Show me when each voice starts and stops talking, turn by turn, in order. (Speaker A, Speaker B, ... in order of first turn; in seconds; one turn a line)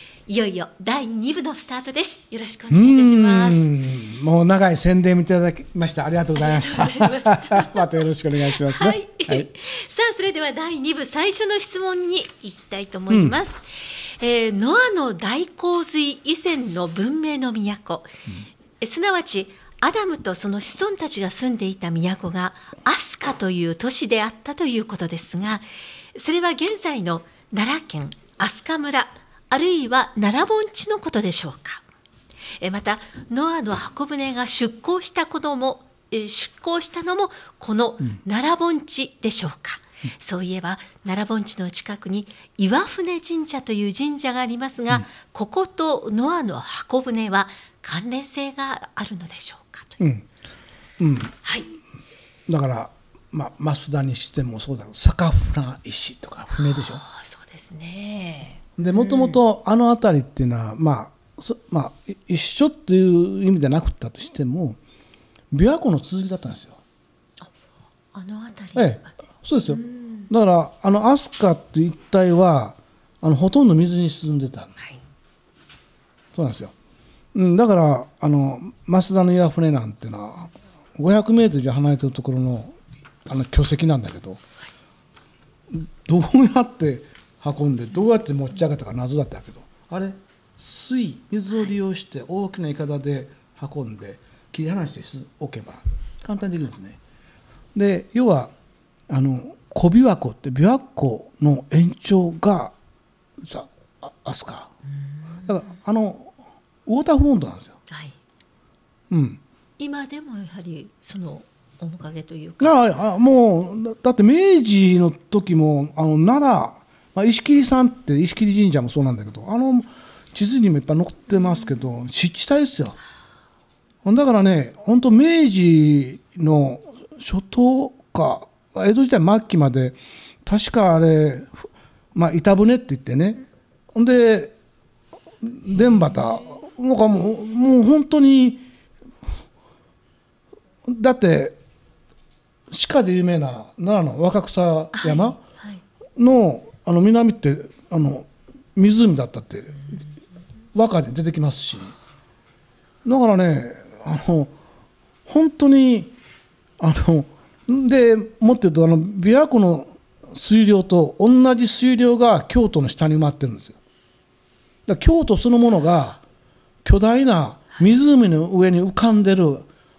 Speaker A: 0.3-3.7
Speaker B: 2.7-9.5
Speaker A: 6.3-8.0
Speaker A: 8.6-13.6
Speaker B: 13.1-13.4
Speaker A: 14.2-18.1
Speaker A: 18.8-25.6
Speaker A: 26.1-31.8
Speaker A: 32.6-50.0
Speaker B: 50.0-50.2
Speaker B: 51.0-51.3
Speaker A: 51.4-51.7
Speaker B: 52.5-57.0
Speaker A: 56.5-59.4
Speaker B: 58.8-64.8
Speaker B: 65.5-66.8
Speaker A: 68.1-70.3
Speaker B: 68.7-74.7
Speaker B: 76.3-76.7
Speaker B: 77.3-84.4
Speaker B: 85.7-97.0
Speaker B: 97.7-98.5
Speaker B: 99.1-102.7
Speaker B: 103.4-104.7
Speaker A: 105.1-105.5
Speaker B: 105.5-106.3
Speaker B: 106.8-107.8
Speaker A: 107.9-108.2
Speaker B: 109.1-109.4
Speaker A: 109.8-112.8
Speaker B: 112.6-123.0
Speaker B: 124.0-133.4
Speaker B: 133.9-134.5
Speaker B: 135.4-138.6
Speaker B: 140.9-141.6
Speaker B: 142.7-145.4
Speaker A: 144.9-145.8
Speaker B: 146.2-150.0
Speaker B: 150.7-151.9
Speaker B: 153.0-154.5
Speaker B: 155.2-156.1
Speaker B: 156.8-163.8
Speaker B: 164.9-166.2
Speaker B: 166.8-169.7